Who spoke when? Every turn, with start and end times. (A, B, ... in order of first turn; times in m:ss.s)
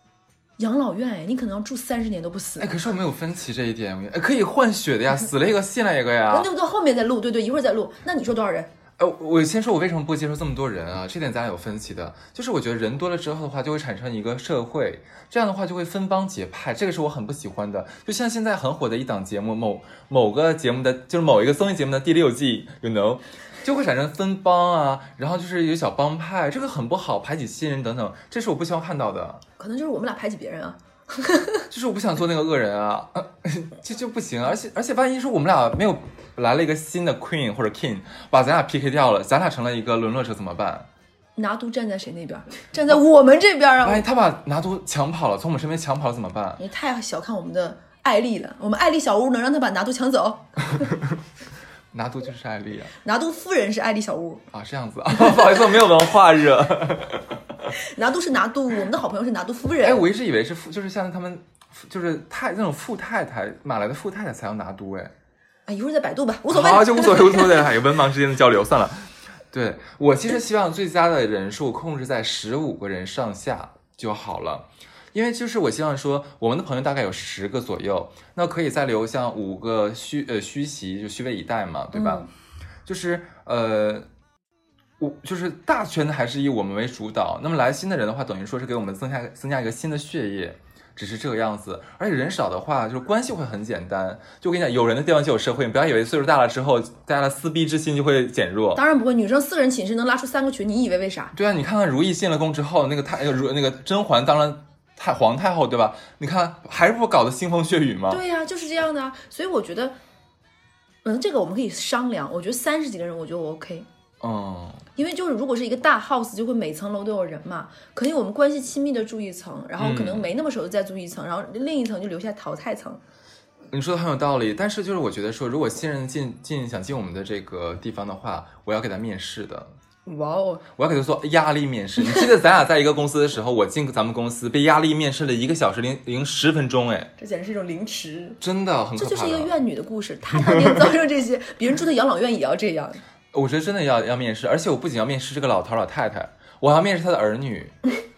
0:00.6-0:02.7 A
0:02.6-0:06.5 B
0:06.3-0:08.7 A
0:09.0-0:29.4 B
0:29.6-0:31.6 A
0:31.7-0:40.9 B
0:41.4-0:44.0 A
0:43.8-0:46.6 B
0:46.6-0:51.0 A
0:51.9-0:52.9 B
0:53.0-0:54.4 A
0:54.5-0:57.4 B
0:57.7-1:00.1 A
0:59.8-1:05.1 B
1:05.7-1:07.7 A
1:06.5-1:22.2 B
1:21.9-1:22.3 A
1:22.9-1:24.1 B
1:25.0-1:38.8 B
1:38.8-1:41.3 A
1:41.3-1:48.2 B
1:48.1-1:50.0 A
1:51.0-1:53.9 A
1:54.2-1:54.8 B
1:55.0-2:03.0 A
1:59.8-2:00.3 B
2:03.7-2:09.7 B
2:10.1-2:10.6 A
2:10.8-2:17.1 B
2:17.2-2:18.4 A
2:18.4-2:19.5 B
2:19.0-2:23.0 A
2:20.3-2:21.0 B
2:23.3-2:27.8 B